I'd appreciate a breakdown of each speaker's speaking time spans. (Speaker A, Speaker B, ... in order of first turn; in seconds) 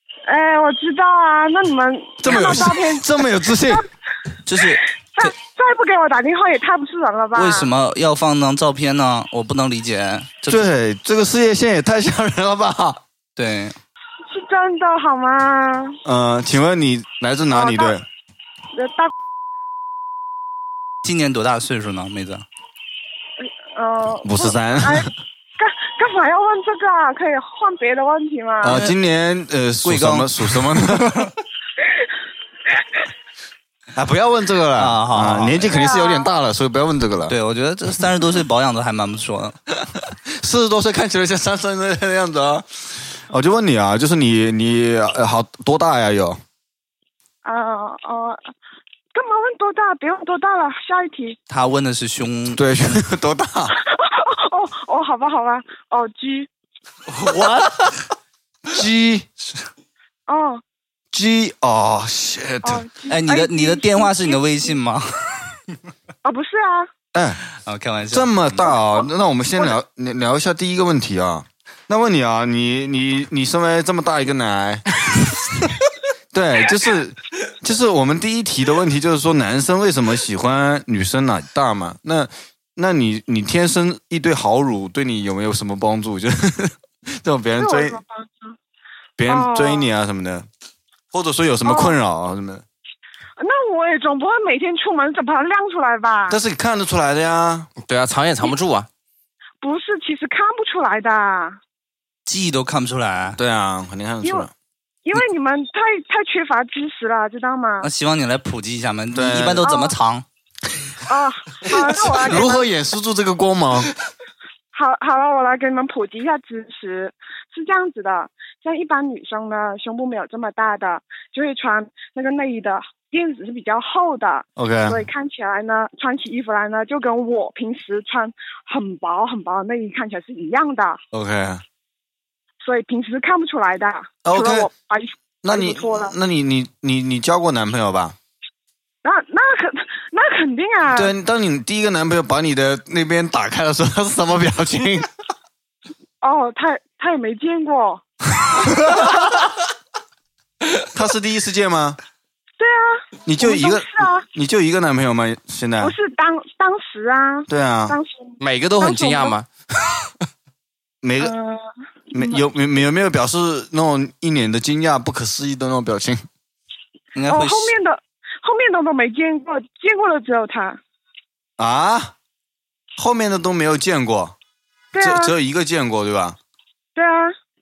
Speaker A: 0.3-3.8, 5.2-7.7, 14.3-16.0, 17.5-18.0, 18.8-19.1, 23.8-28.8, 35.7-36.3, 47.4-48.4, 49.1-51.4, 53.8-56.5, 60.3-60.6, 62.6-64.4, 66.2-66.9, 87.6-88.6, 89.3-89.9, 91.6-92.0, 93.4-96.4, 99.6-101.6, 104.2-104.5, 105.0-107.9, 109.6-110.0, 111.1-112.7, 114.7-131.0, 132.6-136.1, 139.0-141.1, 146.2-148.0, 152.6-154.3, 155.8-159.3, 161.2-162.4, 167.3-170.8, 174.9-175.4, 176.9-177.3
Speaker B: 2.2-3.8, 10.5-13.0, 16.1-18.0, 24.2-25.1, 28.6-31.2, 34.0-37.4, 40.4-42.6, 43.3-46.4, 52.5-53.7, 58.7-59.3, 61.1-62.9, 67.1-67.4, 68.1-74.8, 76.3-88.0, 89.2-90.5, 91.1-92.6, 96.3-97.7, 103.4-104.5, 109.1-109.8, 112.1-113.9, 124.6-125.0, 131.1-131.6, 134.2-134.7, 135.4-138.2, 140.9-145.1, 150.9-152.0, 153.3-155.9, 157.5-158.0, 161.0-161.3, 162.1-166.2, 171.6-172.1, 173.0-174.3, 175.0-176.4
Speaker C: 4.5-5.3, 7.3-10.7, 13.4-13.8, 21.0-22.4, 28.7-29.0, 29.8-31.3, 34.8-35.7, 37.3-39.6, 51.5-52.6, 63.1-65.1, 67.6-68.7, 102.3-103.4, 107.8-110.2, 167.2-167.7
Speaker D: 97.9-98.9, 158.4-159.5